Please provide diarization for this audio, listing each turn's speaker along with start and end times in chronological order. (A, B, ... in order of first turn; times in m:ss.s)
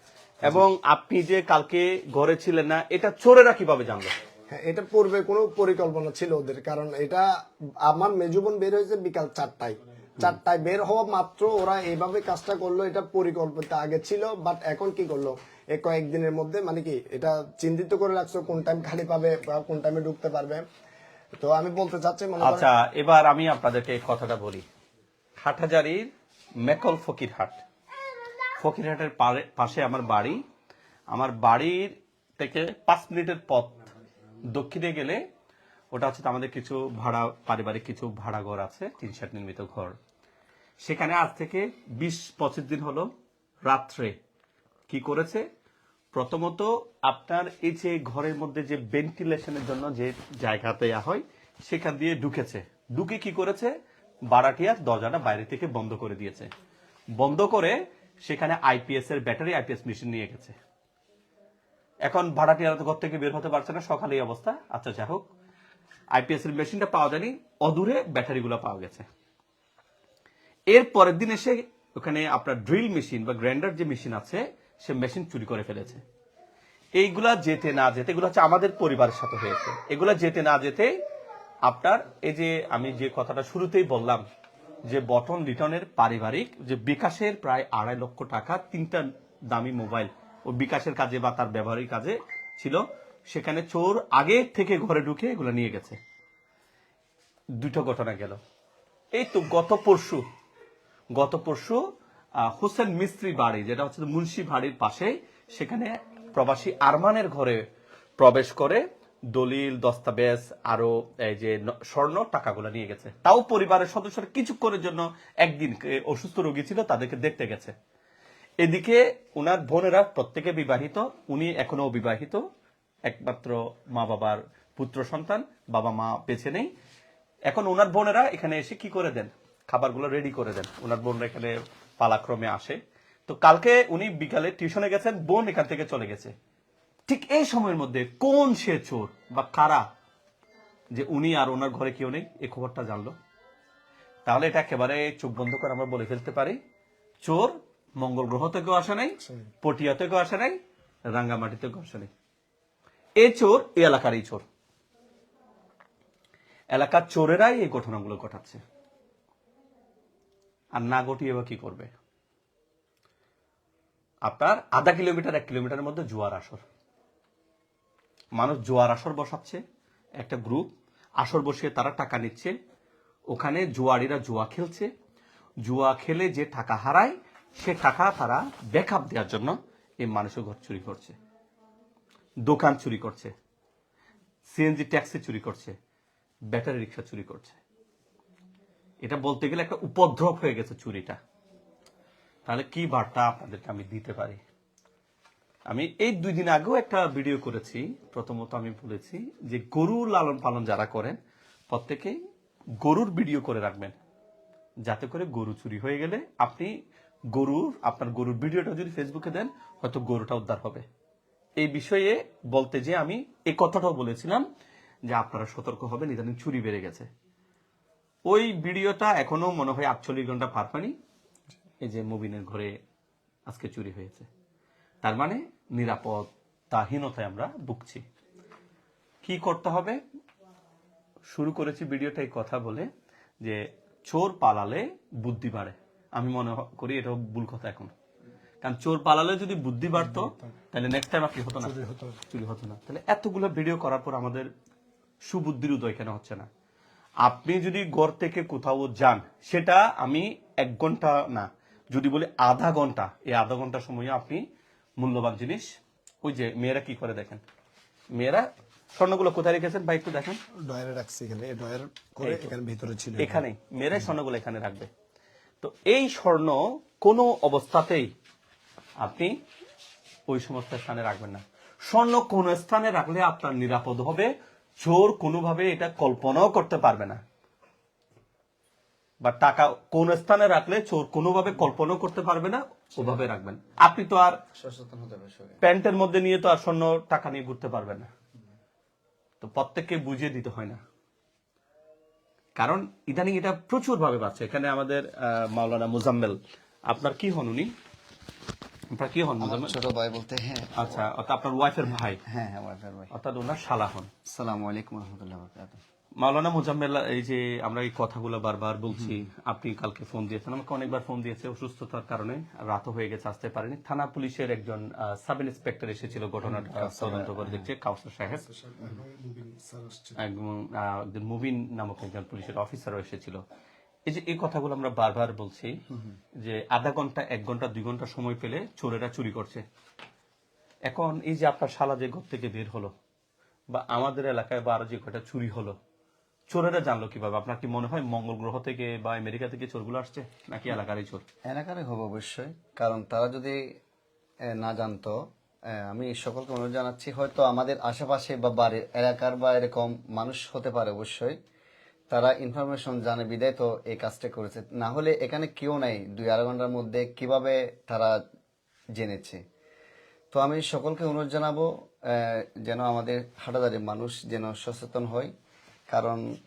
0:00.4-0:04.1 A
0:04.5-0:07.2 B
0:07.8-0:20.6 B
0:21.4-0:22.7 B
0:22.4-0:24.6 A
0:25.4-0:26.1 A
0:26.6-0:27.6 A
0:28.6-0:30.4 A
0:31.1-0:33.9 A
0:34.5-0:35.2 A
0:35.9-0:40.0 A
0:40.8-0:43.1 A
0:43.6-0:44.2 A
0:44.9-0:45.4 A
0:46.1-0:53.7 A
0:54.3-0:56.5 A
0:57.1-1:00.6 A
1:02.0-1:05.2 A
1:06.1-1:09.0 A
1:10.7-1:16.0 A
1:17.0-1:20.9 A
1:21.6-1:24.2 A
1:24.8-1:36.0 A
1:37.6-1:38.4 A
1:39.1-1:40.2 A
1:41.1-1:41.8 A
1:42.4-1:47.6 A
1:48.2-1:57.7 A
1:58.6-2:02.4 A
2:03.1-2:06.7 A
2:07.5-2:16.3 A
2:17.1-2:19.8 A
2:20.9-2:23.1 A
2:24.2-2:26.6 A
2:27.2-2:30.6 A
2:31.1-2:32.1 A
2:33.2-2:34.4 A
2:36.7-2:38.6 A
2:40.7-2:41.9 A
2:44.2-2:46.6 A
2:48.3-2:49.6 A
2:50.2-2:50.7 A
2:51.2-2:52.5 A
2:53.3-2:54.9 A
2:55.6-3:01.2 A
3:02.4-3:03.3 A
3:04.5-3:05.7 A
3:06.5-3:07.6 A
3:09.0-3:11.2 A
3:12.4-3:14.4 A
3:15.7-3:21.2 A
3:21.7-3:22.2 A
3:22.8-3:24.0 A
3:24.8-3:26.7 A
3:27.3-3:30.8 A
3:31.6-3:34.4 A
3:35.1-3:37.1 A
3:38.3-3:40.9 A
3:41.8-3:42.7 A
3:43.5-3:44.3 A
3:45.0-3:48.0 A
3:49.2-3:50.0 A
3:51.3-3:52.9 A
3:53.4-3:57.9 A
3:58.6-4:04.5 A
4:01.6-4:02.2 B
4:05.2-4:06.5 A
4:07.2-4:14.4 A
4:15.0-4:17.4 A
4:18.1-4:20.4 A
4:20.7-4:23.4 B
4:22.2-4:22.5 A
4:23.2-4:24.9 A
4:25.6-4:28.1 A
4:29.0-4:29.3 A
4:30.3-4:37.2 A
4:39.2-4:44.4 A
4:43.0-4:43.3 C
4:44.5-4:45.6 C
4:45.6-4:48.1 A
4:49.4-4:50.8 A
4:52.6-4:57.7 A
4:58.9-4:59.8 A
4:59.4-5:01.1 C
5:00.7-5:02.2 A
5:01.8-5:03.1 C
5:03.1-5:04.1 A
5:04.3-5:05.8 C
5:06.2-5:18.4 A
5:16.4-5:17.7 C
5:18.5-5:20.2 B
5:20.2-5:23.4 A
5:24.1-5:25.8 A
5:26.4-5:29.6 A
5:30.9-5:32.9 A
5:33.7-5:35.8 A
5:36.5-5:41.2 A
5:41.4-5:43.6 C
5:44.5-5:45.1 C
5:45.8-5:51.3 C
5:52.1-5:58.2 C
5:58.9-5:59.4 C
6:00.3-6:05.3 C
6:05.9-6:06.2 C